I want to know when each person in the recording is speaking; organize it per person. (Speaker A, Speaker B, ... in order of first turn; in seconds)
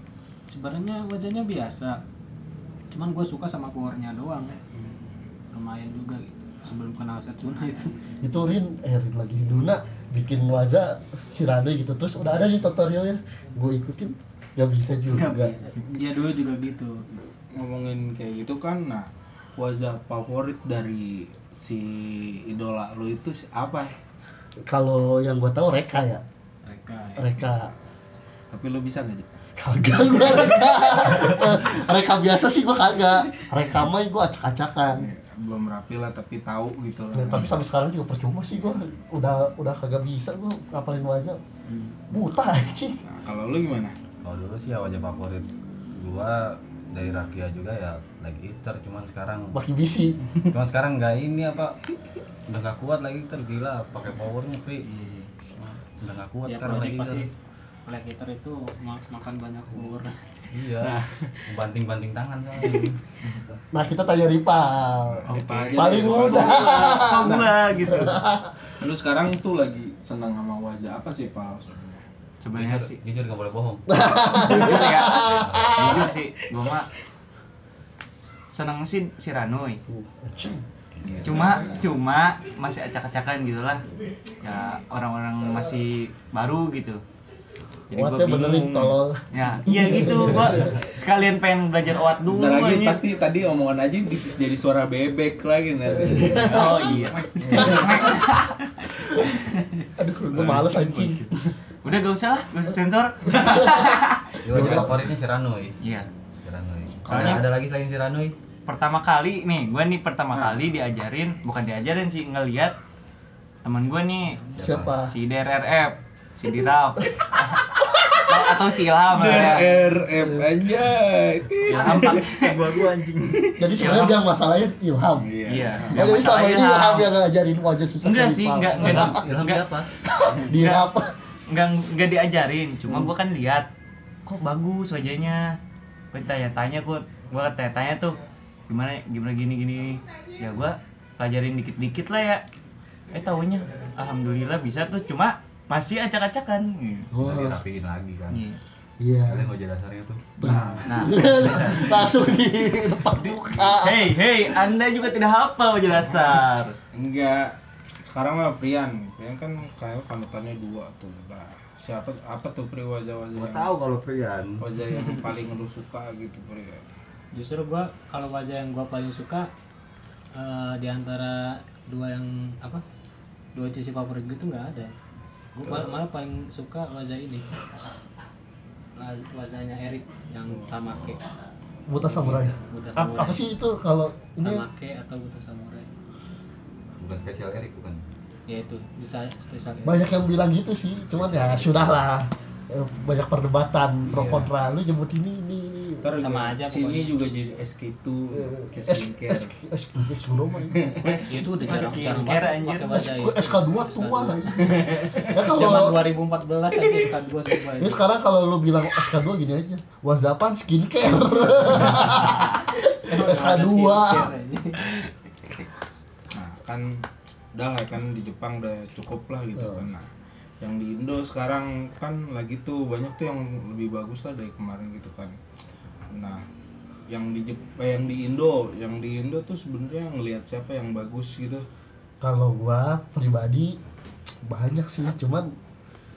Speaker A: 0.5-2.0, 2.9-4.6, 5.5-7.9, 15.1-17.1, 26.6-27.3, 41.7-42.0, 56.5-57.3, 57.9-60.5, 121.7-122.2, 167.3-169.5, 170.3-172.8, 173.5-174.9, 175.5-177.5, 178.9-181.2, 182.1-183.4, 184.4-185.9, 188.5-190.1, 196.2-197.2, 201.0-208.0, 212.1-215.1
Speaker B: 4.7-5.2, 17.5-23.9, 28.5-29.4, 34.9-37.6, 43.0-44.0, 60.8-61.4, 65.3-67.7, 68.8-72.0, 81.0-81.9, 92.2-98.3, 100.3-101.3, 107.0-107.4, 119.1-122.4, 123.3-123.6, 125.2-126.0, 150.4-151.1, 156.9-163.7, 164.6-166.8, 180.5-180.7, 194.1-194.5, 196.0-199.5, 200.7-201.3, 204.6-205.5, 216.3-220.1, 220.6-225.3, 226.1-226.4, 227.1-231.7
Speaker C: 8.2-15.5, 24.6-26.2, 27.2-27.7, 29.6-35.1, 37.1-41.4, 42.1-43.0, 49.5-50.2, 63.7-67.3, 67.9-68.5, 73.9-76.1, 79.9-80.6, 87.9-90.8, 96.0-96.7, 100.0-101.3, 103.3-103.8, 104.5-105.0, 114.6-115.1, 120.2-120.4, 123.6-125.3, 125.9-129.2, 130.0-131.1, 147.1-147.6, 149.0-149.5, 150.4-154.2, 181.9-184.6, 189.8-196.1, 198.3-200.8, 202.9-206.0, 207.8-214.3, 219.6-219.9, 232.2-233.8, 234.4-235.5
Speaker D: 44.2-49.6, 50.5-51.8, 52.5-54.9, 55.6-57.2, 60.5-63.0, 72.5-74.0, 74.7-76.0, 81.2-81.5, 97.4-97.8, 104.4-105.8, 106.4-108.3, 114.5-114.9, 122.3-123.4, 128.8-129.9, 147.2-148.4, 149.3-150.3, 163.3-164.6, 187.0-188.0, 191.0-191.9
Speaker E: 65.3-68.2, 72.4-73.0, 74.3-76.9, 78.5-79.8, 81.2-83.8, 84.4-87.0, 87.9-93.0, 96.4-99.2, 101.8-104.9, 105.8-106.1, 107.1-107.5, 108.7-112.7, 113.6-114.4, 115.1-117.6, 118.1-119.8, 121.7-123.0, 123.7-124.2, 125.5-127.1, 128.0-129.7, 130.5-130.8, 131.5-133.7, 134.2-135.6, 136.1-138.2, 138.7-142.4, 143.1-147.1, 148.3-148.6, 150.8-152.1, 153.6-156.8, 201.3-203.0